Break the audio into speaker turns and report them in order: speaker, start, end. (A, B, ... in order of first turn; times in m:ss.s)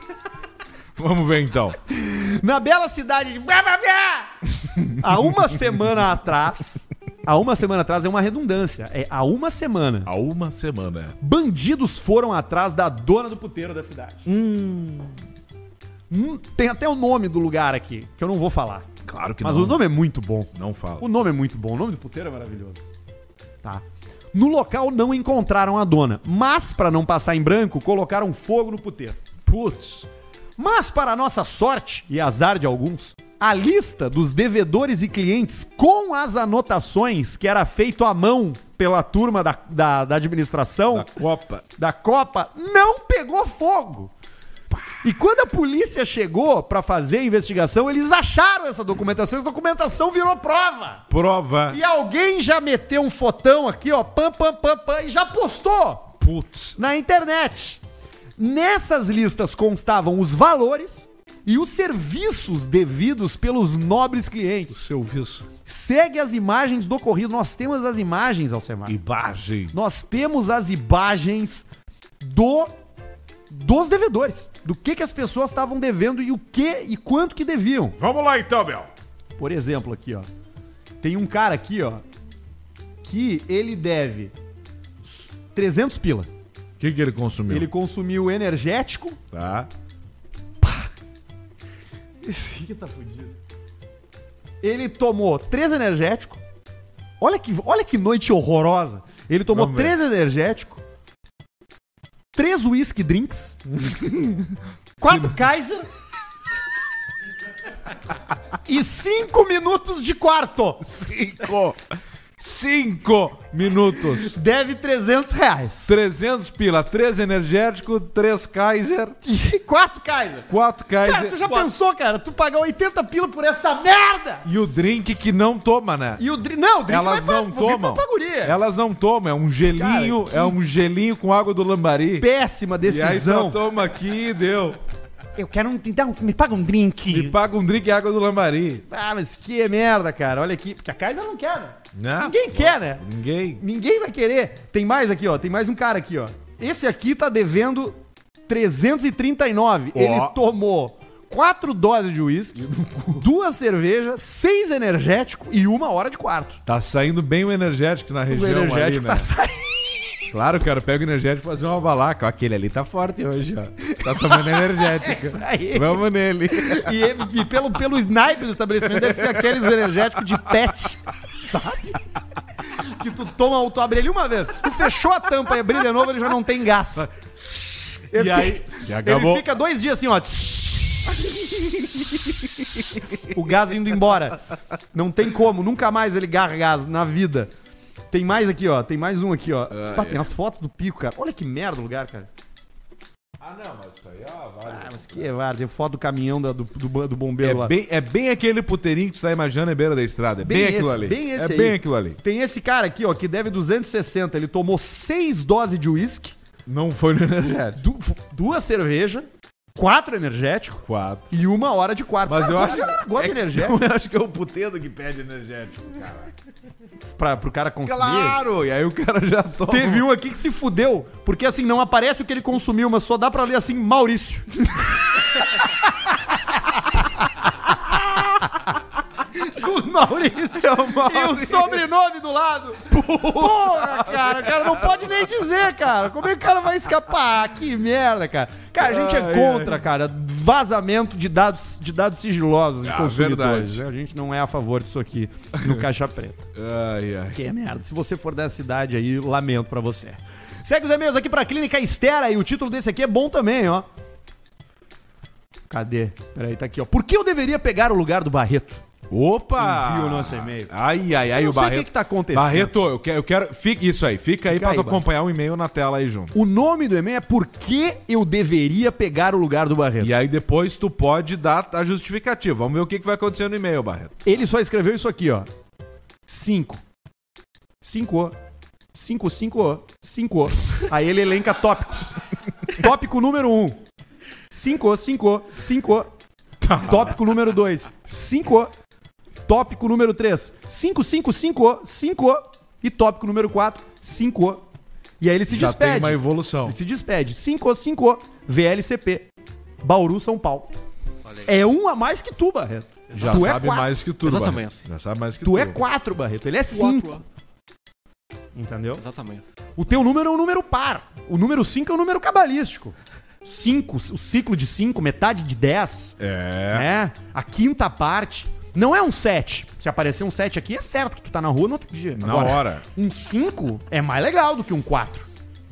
0:01.0-0:01.8 A
0:01.9-0:10.1 B
0:04.8-0:05.8 A
0:10.0-0:11.2 A
0:11.2-0:14.3 B
0:14.3-0:15.2 A
0:16.1-0:18.9 B
0:19.0-0:19.8 A
0:19.4-0:22.8 B
0:20.5-0:21.1 A
0:23.6-0:29.2 B
0:29.4-0:30.1 A
0:30.6-0:41.1 B
0:40.9-0:41.6 A
0:41.8-0:44.1 B
0:45.0-0:51.0 B
0:51.1-0:51.8 A
0:51.7-0:56.1 B
0:56.2-0:56.8 A
0:56.8-0:57.8 B
0:58.4-1:04.9 B
1:04.7-1:05.5 A
1:05.7-1:09.0 B
1:08.9-1:09.7 A
1:09.7-1:11.7 B
1:12.2-1:12.7 B
1:13.5-1:18.0 B
1:18.0-1:18.9 A
1:19.4-1:20.3 B
1:21.0-1:22.0 B
1:23.0-1:24.3 B
1:25.0-1:26.3 B
1:26.8-1:27.7 A
1:27.5-1:29.2 B
1:29.3-1:29.7 A
1:30.6-1:30.9 B
1:32.2-1:33.3 B
1:34.6-1:36.4 B
1:37.2-1:40.8 B
1:39.5-1:40.0 A
1:42.4-1:43.6 B
1:43.8-1:44.6 A
1:45.0-1:45.9 B
1:45.1-1:45.3 A
1:48.6-1:50.8 B
1:50.8-1:54.4 A
1:54.0-1:56.0 B
1:55.9-1:59.2 A
1:59.2-2:00.5 B
2:00.5-2:01.7 A
2:01.0-2:04.5 B
2:04.4-2:06.2 A
2:06.2-2:08.6 B
2:06.9-2:12.3 A
2:09.7-2:10.6 B
2:12.2-2:13.6 B
2:12.8-2:14.8 A
2:15.4-2:17.4 B
2:17.1-2:18.8 A
2:18.9-2:23.0 B
2:21.9-2:23.6 A
2:23.6-2:32.6 B
2:29.9-2:30.4 A
2:32.6-2:33.2 A
2:33.2-2:36.6 B
2:36.7-2:39.3 A
2:38.3-2:40.2 B
2:40.3-2:47.0 A
2:43.8-2:52.0 B
2:48.9-2:50.4 A
2:52.7-2:57.1 B
2:57.3-2:59.5 A
2:57.9-3:04.4 B
3:04.9-3:07.5 B
3:08.1-3:12.3 B
3:09.7-3:10.3 A
3:13.4-3:15.3 A
3:14.7-3:17.7 B
3:17.4-3:22.2 A
3:20.4-3:26.4 B
3:26.7-3:27.8 A
3:27.8-3:33.8 B
3:30.9-3:31.3 A
3:32.3-3:36.3 A
3:37.0-3:38.4 B
3:37.8-3:40.1 A
3:39.7-3:44.8 B
3:45.6-3:47.1 B
3:47.9-3:48.4 A
3:49.3-4:06.5 B
3:50.5-3:51.8 A
3:52.9-3:55.3 A
3:58.8-3:59.8 A
4:02.8-4:03.8 A
4:05.6-4:05.8 A
4:06.6-4:07.4 A
4:07.3-4:13.9 B
4:15.7-4:18.8 B
4:19.1-4:26.4 A
4:19.6-4:20.7 B
4:21.3-4:22.7 B
4:24.5-4:25.0 B
4:26.3-4:30.1 B
4:30.0-4:34.2 A
4:34.2-4:35.5 B
4:36.3-4:36.8 B
4:37.8-4:38.4 B
4:38.9-4:43.8 B
4:44.5-4:46.1 B
4:46.6-4:47.2 A
4:46.8-4:48.7 B
4:49.5-4:54.6 B
4:55.2-4:59.3 B
4:55.5-4:56.8 A
4:59.8-5:00.7 B
5:01.2-5:01.5 C
5:01.4-5:03.9 B
5:03.1-5:03.7 C
5:03.1-5:05.8 A
5:04.2-5:04.8 C
5:05.4-5:07.2 B
5:06.7-5:07.2 C
5:08.6-5:09.0 B
5:09.0-5:09.5 C
5:09.8-5:16.2 B
5:16.2-5:16.9 A
5:16.7-5:25.3 B
5:22.2-5:22.8 A